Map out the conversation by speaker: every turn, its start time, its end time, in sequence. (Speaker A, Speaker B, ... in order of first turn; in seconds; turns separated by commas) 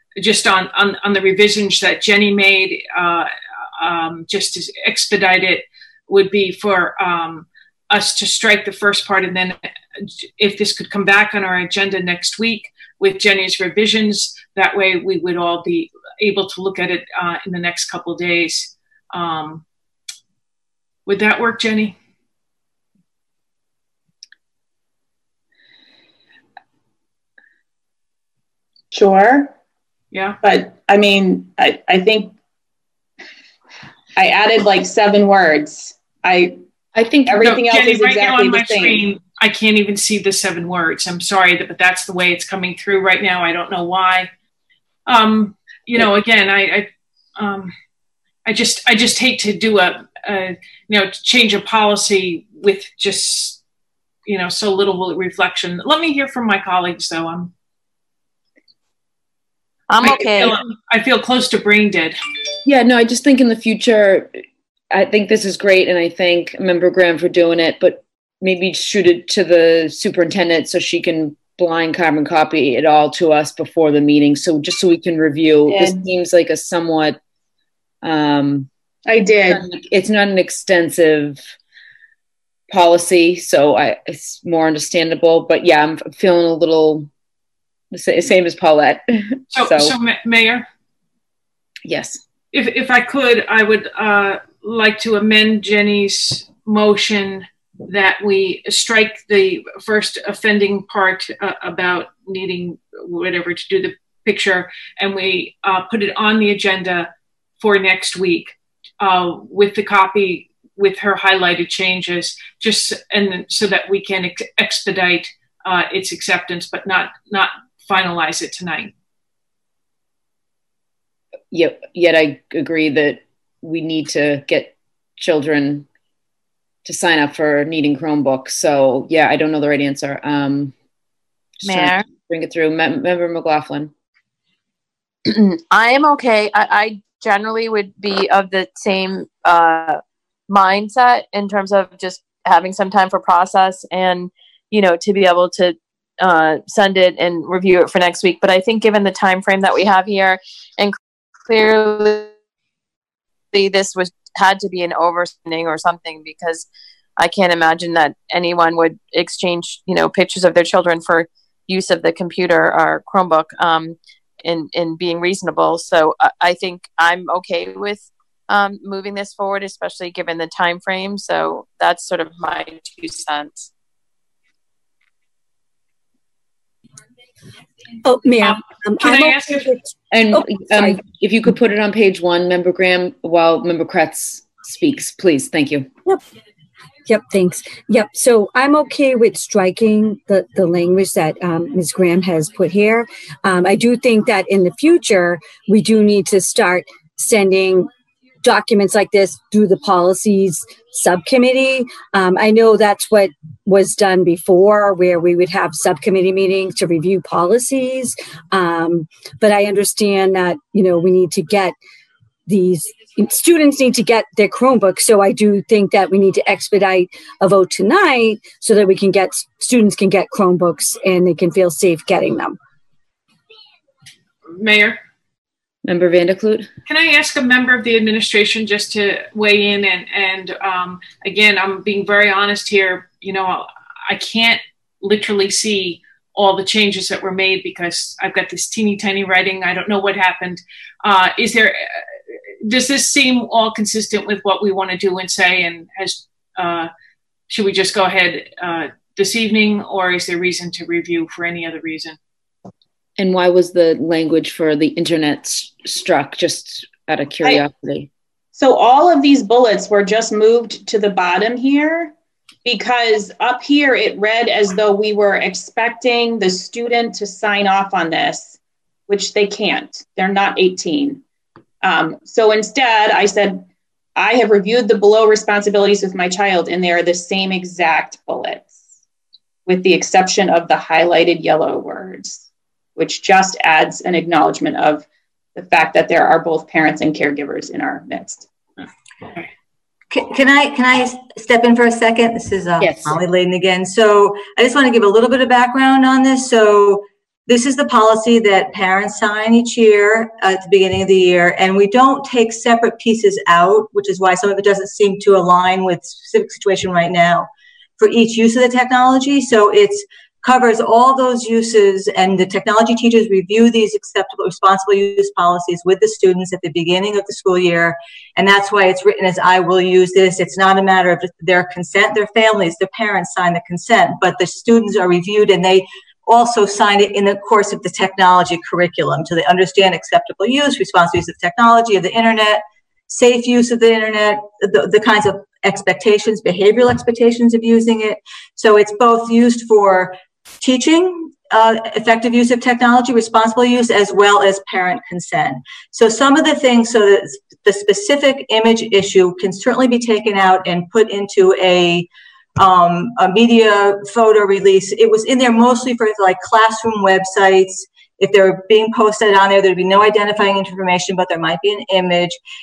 Speaker A: 0.2-19.6, Speaker A: 21.1-22.0, Speaker B: 28.9-29.5, Speaker A: 30.1-30.4, Speaker B: 30.4-32.3, Speaker B: 34.2-36.6, Speaker C: 37.0-37.5, Speaker B: 37.3-39.1, Speaker A: 37.3-44.3, Speaker A: 45.1-47.8, Speaker A: 48.5-53.6, Speaker A: 54.3-57.5, Speaker D: 59.9-60.6, Speaker A: 60.0-62.2, Speaker C: 62.6-64.4, Speaker C: 64.9-77.2, Speaker B: 75.7-76.0, Speaker C: 78.0-78.7, Speaker B: 79.1-79.6, Speaker C: 79.5-81.4, Speaker C: 82.7-87.1, Speaker C: 87.9-90.0, Speaker A: 89.5-90.7, Speaker C: 91.8-92.2, Speaker A: 92.5-118.9, Speaker C: 121.5-125.9, Speaker C: 126.8-130.8, Speaker C: 131.6-133.9, Speaker D: 131.7-132.0, Speaker D: 135.3-152.3, Speaker D: 153.5-156.7, Speaker D: 157.2-173.7, Speaker E: 178.0-181.0, Speaker A: 179.0-179.7, Speaker C: 180.1-185.9, Speaker E: 187.1-197.9, Speaker E: 198.4-211.8, Speaker E: 212.5-222.6, Speaker A: 224.5-225.0, Speaker C: 225.8-226.7, Speaker A: 226.9-242.0, Speaker A: 242.6-246.9, Speaker A: 247.5-252.2, Speaker C: 253.2-258.1, Speaker B: 258.5-262.1, Speaker B: 262.6-271.2, Speaker B: 271.8-278.8, Speaker B: 279.7-288.5, Speaker F: 290.1-362.4, Speaker C: 292.8-293.2